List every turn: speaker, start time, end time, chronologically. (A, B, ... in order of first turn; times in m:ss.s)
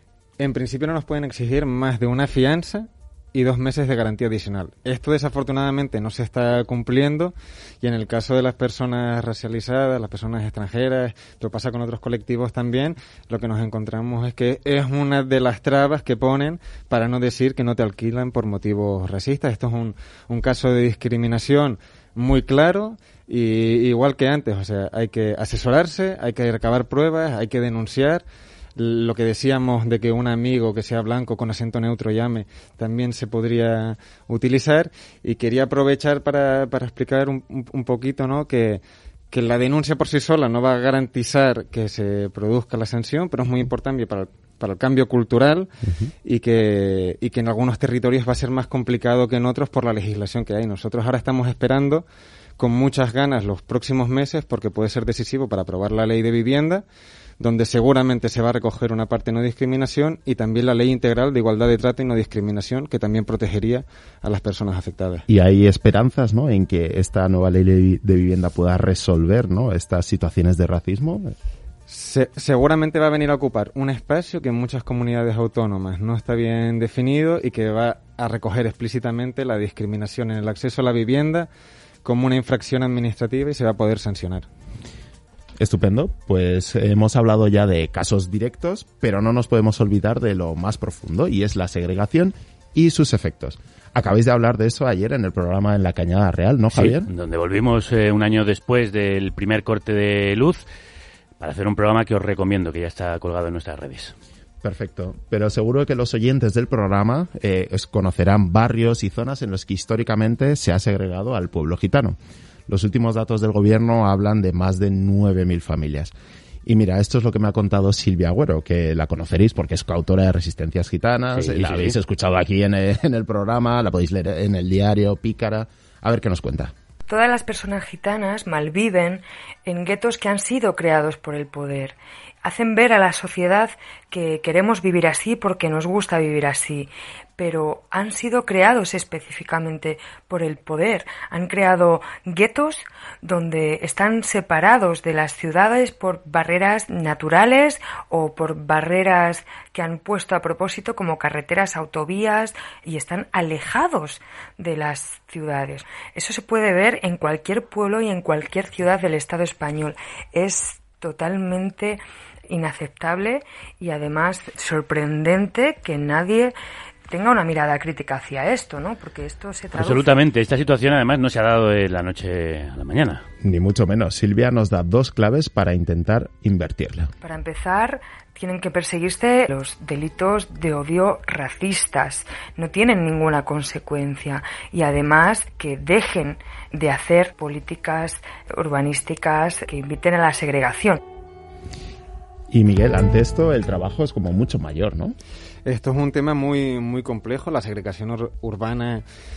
0:00.4-0:45.7 A
0:46.2-0:52.0 A
0:52.6-0:56.8 A
0:57.4-1:05.2 A
1:05.3-1:11.3 B
1:11.9-1:21.5 A
1:22.0-1:24.5 A
1:25.6-1:37.1 B
1:36.7-1:40.6 C
1:41.4-1:44.1 C
1:44.6-1:52.2 B
1:52.7-1:56.1 B
1:56.6-2:06.7 B
2:01.3-2:01.9 C
2:07.1-2:46.6 D
2:47.1-2:50.2 D
2:49.7-2:53.2 C
2:53.4-2:57.1 B
2:57.2-3:11.0 D
3:12.5-3:15.1 B
3:15.6-3:19.0 A